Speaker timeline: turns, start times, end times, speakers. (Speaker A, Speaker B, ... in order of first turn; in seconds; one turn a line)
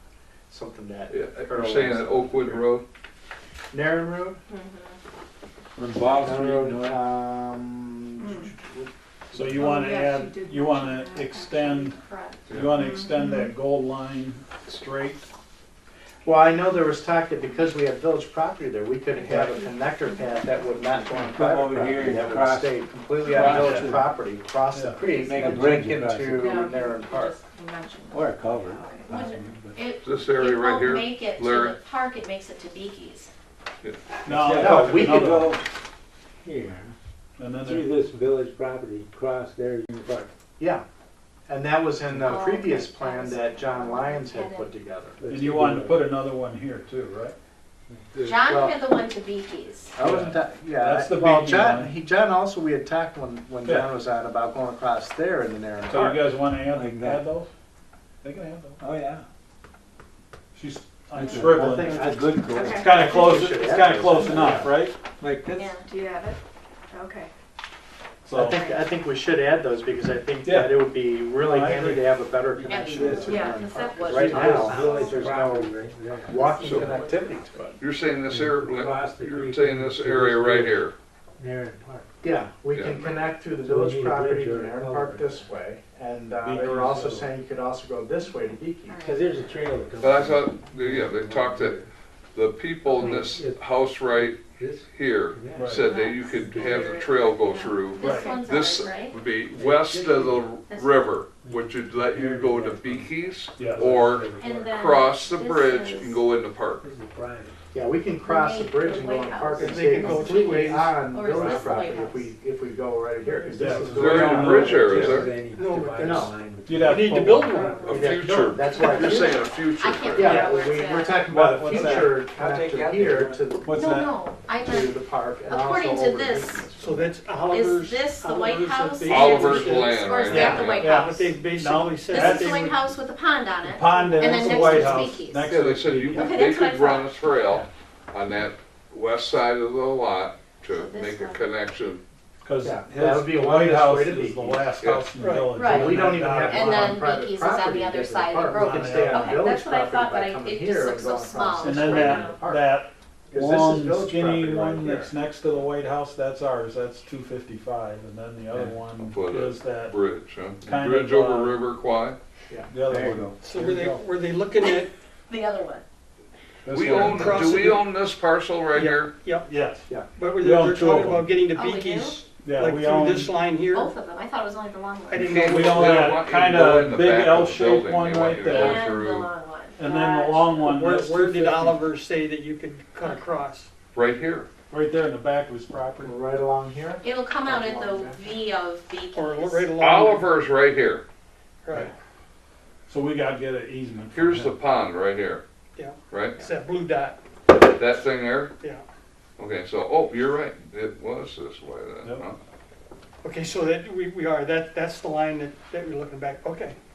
Speaker A: 0.5-2.7
Speaker B: 1.1-2.9
Speaker A: 3.7-4.4
Speaker C: 4.5-5.0
Speaker D: 5.8-7.1
Speaker A: 6.1-9.8
Speaker E: 8.2-8.5
Speaker F: 9.3-15.3
Speaker E: 9.6-11.9
Speaker C: 12.0-12.4
Speaker E: 12.8-13.5
Speaker A: 16.2-27.3
Speaker E: 19.2-20.6
Speaker D: 21.3-22.8
Speaker D: 23.3-24.1
Speaker F: 23.4-24.0
Speaker F: 24.7-25.0
Speaker D: 25.1-26.6
Speaker E: 26.4-29.1
Speaker D: 28.1-29.7
Speaker C: 28.9-33.3
Speaker B: 30.0-31.8
Speaker F: 34.2-35.6
Speaker D: 34.3-35.6
Speaker A: 34.4-35.5
Speaker D: 36.4-36.9
Speaker F: 37.4-38.0
Speaker D: 37.6-40.3
Speaker A: 40.6-40.8
Speaker A: 41.5-45.2
Speaker C: 42.1-44.7
Speaker D: 45.2-46.1
Speaker F: 45.2-47.3
Speaker D: 47.9-48.2
Speaker C: 48.2-50.0
Speaker A: 48.5-48.8
Speaker A: 50.0-56.2
Speaker F: 50.0-51.9
Speaker F: 53.6-53.9
Speaker F: 55.9-57.5
Speaker D: 56.7-57.2
Speaker F: 58.2-58.8
Speaker D: 58.8-59.2
Speaker F: 60.5-65.0
Speaker D: 61.1-63.2
Speaker A: 61.3-62.1
Speaker E: 62.5-63.4
Speaker A: 62.8-64.7
Speaker D: 65.2-65.8
Speaker C: 65.5-65.8
Speaker E: 65.8-66.4
Speaker E: 66.9-67.3
Speaker F: 68.2-68.6
Speaker A: 68.3-75.7
Speaker C: 68.4-68.9
Speaker F: 70.4-72.1
Speaker D: 72.6-73.4
Speaker C: 72.6-75.3
Speaker D: 74.1-76.4
Speaker A: 76.3-77.8
Speaker C: 76.3-77.8
Speaker B: 76.6-77.0
Speaker B: 77.8-80.9
Speaker D: 78.3-80.9
Speaker D: 81.4-82.1
Speaker A: 82.2-89.0
Speaker B: 82.7-83.2
Speaker D: 83.6-85.5
Speaker F: 86.4-87.3
Speaker E: 88.9-89.2
Speaker D: 89.0-91.9
Speaker B: 90.0-91.8
Speaker B: 92.3-94.4
Speaker C: 92.9-93.3
Speaker D: 92.9-93.6
Speaker D: 94.2-95.8
Speaker B: 94.9-106.8
Speaker F: 95.5-95.8
Speaker C: 95.8-99.2
Speaker D: 96.4-96.8
Speaker E: 97.5-98.4
Speaker F: 98.0-98.4
Speaker D: 99.5-100.4
Speaker C: 100.7-100.9
Speaker D: 101.4-104.7
Speaker F: 103.5-104.1
Speaker C: 104.4-106.2
Speaker D: 106.8-107.5
Speaker A: 107.7-115.3
Speaker C: 108.2-112.3
Speaker G: 109.5-110.9
Speaker D: 111.3-111.7
Speaker F: 113.5-115.0
Speaker D: 113.6-118.0
Speaker B: 113.9-115.3
Speaker G: 115.5-118.1
Speaker A: 116.0-116.3
Speaker F: 116.6-117.5
Speaker C: 117.5-118.0
Speaker B: 117.8-120.4
Speaker A: 117.9-119.4
Speaker C: 118.8-121.2
Speaker A: 120.1-123.8
Speaker G: 120.2-120.5
Speaker F: 121.3-122.1
Speaker D: 121.7-123.4
Speaker F: 123.7-124.1
Speaker C: 123.7-126.7
Speaker A: 124.6-127.2
Speaker G: 126.8-132.8
Speaker C: 127.5-131.3
Speaker B: 129.1-130.9
Speaker F: 130.8-132.6
Speaker C: 132.1-135.4
Speaker F: 133.6-136.3
Speaker B: 135.5-142.0
Speaker C: 136.1-137.1
Speaker C: 140.6-141.5
Speaker F: 142.4-147.0
Speaker A: 142.6-144.7
Speaker B: 144.8-145.1
Speaker G: 145.2-145.5
Speaker C: 145.5-152.4
Speaker A: 145.6-152.7
Speaker F: 148.4-149.4
Speaker F: 151.6-159.9
Speaker A: 153.3-155.1
Speaker B: 159.0-162.2
Speaker F: 160.6-161.6
Speaker F: 162.7-164.0
Speaker D: 162.9-163.4
Speaker G: 163.4-164.9
Speaker C: 164.6-165.8
Speaker F: 166.7-167.8
Speaker B: 166.7-169.1
Speaker G: 167.0-167.7
Speaker G: 168.7-169.5
Speaker F: 169.5-169.9
Speaker G: 170.1-173.9
Speaker F: 170.4-171.3
Speaker C: 171.5-172.2
Speaker F: 172.4-173.3
Speaker C: 173.6-175.3
Speaker G: 175.1-176.1
Speaker B: 175.1-179.3
Speaker F: 175.4-178.8
Speaker C: 178.5-180.7
Speaker F: 179.8-181.8
Speaker G: 180.6-183.7
Speaker C: 183.0-183.4
Speaker B: 183.9-184.5
Speaker F: 184.7-186.1
Speaker A: 186.0-188.2
Speaker C: 187.0-189.7
Speaker G: 189.1-190.3
Speaker B: 189.8-191.0
Speaker G: 191.6-191.9
Speaker F: 192.9-194.5
Speaker B: 194.1-195.4
Speaker G: 195.8-197.2
Speaker B: 196.1-196.4
Speaker B: 197.5-198.5
Speaker B: 199.4-202.4
Speaker G: 203.2-206.8